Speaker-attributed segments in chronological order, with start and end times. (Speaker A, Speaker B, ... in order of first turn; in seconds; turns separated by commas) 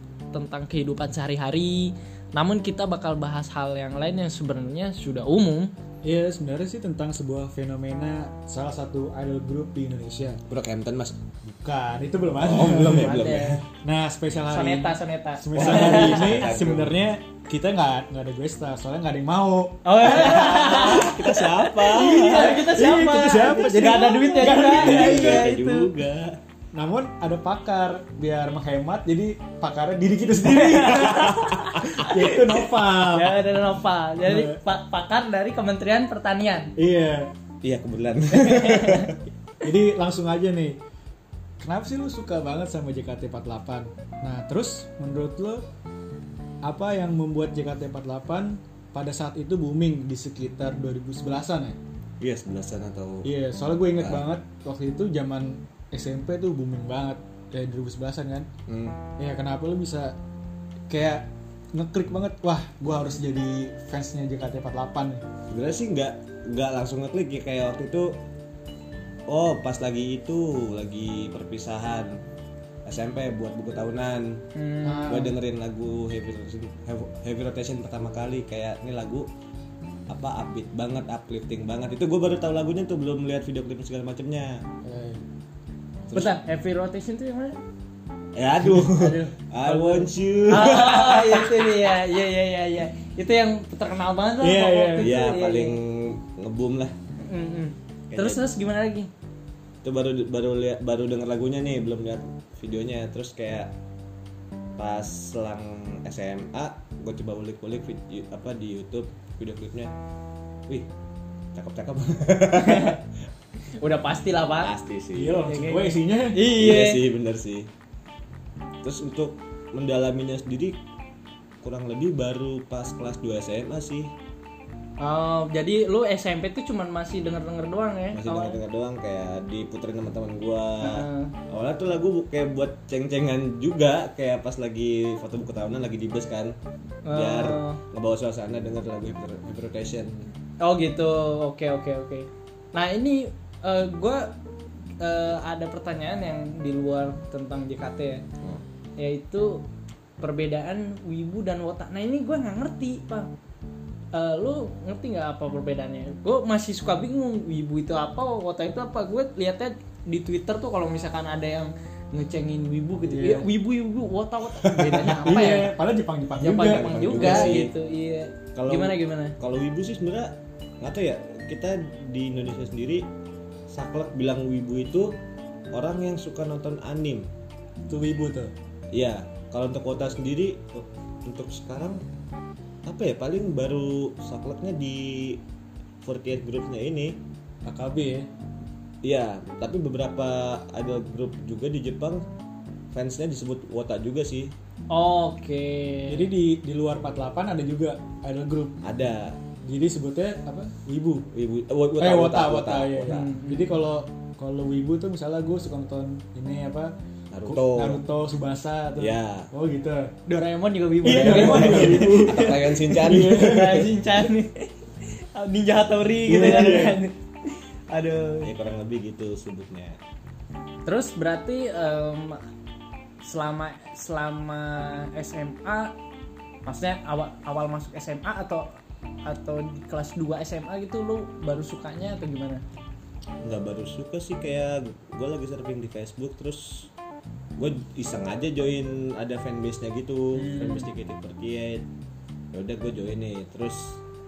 Speaker A: 0.3-5.7, Speaker B: 6.0-10.4, Speaker C: 10.5-11.2, Speaker B: 11.5-13.3, Speaker C: 12.4-13.6, Speaker A: 12.8-13.6, Speaker B: 13.8-21.1, Speaker A: 14.5-16.4, Speaker C: 15.6-16.9, Speaker A: 19.8-25.9, Speaker C: 20.2-22.5, Speaker B: 21.9-25.4, Speaker C: 23.8-26.4, Speaker B: 26.7-33.6, Speaker A: 30.4-36.7, Speaker B: 34.2-34.6, Speaker B: 36.8-37.3, Speaker C: 37.6-39.2, Speaker A: 38.3-39.1, Speaker B: 39.6-40.8, Speaker B: 41.6-45.6, Speaker B: 46.6-51.8, Speaker C: 52.2-53.3, Speaker B: 53.2-58.5, Speaker C: 54.0-54.2, Speaker C: 58.7-59.0, Speaker B: 59.2-60.1, Speaker B: 60.9-65.2, Speaker C: 65.5-68.2, Speaker C: 69.3-72.2, Speaker C: 72.8-74.4, Speaker A: 74.5-75.3, Speaker B: 74.8-75.3, Speaker C: 75.1-79.3, Speaker C: 80.1-84.6, Speaker B: 84.8-85.2, Speaker A: 86.1-87.6, Speaker C: 88.3-92.0, Speaker A: 88.7-95.8, Speaker B: 94.4-95.1, Speaker C: 95.0-96.9, Speaker A: 97.2-99.1, Speaker C: 98.1-98.4, Speaker C: 99.8-103.7, Speaker C: 104.8-109.9, Speaker C: 111.5-113.0, Speaker A: 112.5-113.0, Speaker A: 113.8-114.7, Speaker C: 114.6-115.5, Speaker B: 115.1-116.4, Speaker A: 115.5-117.0, Speaker C: 116.5-117.7, Speaker C: 118.8-120.8, Speaker C: 121.6-124.1, Speaker A: 125.0-128.6, Speaker C: 128.1-136.6, Speaker A: 130.8-131.3, Speaker A: 137.1-137.8, Speaker C: 137.1-140.3, Speaker A: 140.6-144.3, Speaker A: 145.0-148.2, Speaker A: 149.0-149.6, Speaker A: 150.2-153.3, Speaker A: 154.1-165.8, Speaker B: 163.0-163.5, Speaker C: 164.6-165.6, Speaker B: 164.8-167.6, Speaker A: 166.4-169.3, Speaker C: 166.5-167.7, Speaker C: 168.6-173.0, Speaker C: 173.7-175.2, Speaker C: 175.7-177.3, Speaker B: 177.9-178.5, Speaker C: 178.9-182.0, Speaker C: 182.9-185.4, Speaker C: 186.0-187.2, Speaker B: 187.6-188.3, Speaker C: 189.0-192.2, Speaker C: 192.9-194.5, Speaker A: 194.9-196.3, Speaker B: 196.1-198.8, Speaker C: 198.8-199.4, Speaker B: 199.6-201.3, Speaker C: 201.3-203.3, Speaker B: 202.0-206.9, Speaker A: 203.1-203.7, Speaker C: 207.3-208.0, Speaker B: 207.4-210.1, Speaker C: 209.0-209.5, Speaker A: 210.3-218.5, Speaker B: 211.0-213.9, Speaker C: 211.1-214.0, Speaker B: 216.3-216.9, Speaker C: 216.3-217.0, Speaker C: 218.4-220.0, Speaker A: 220.8-222.4, Speaker A: 223.2-225.9, Speaker A: 226.6-228.6, Speaker A: 229.2-232.6, Speaker C: 233.4-236.9, Speaker C: 237.6-241.8, Speaker A: 240.3-240.9, Speaker C: 242.5-244.0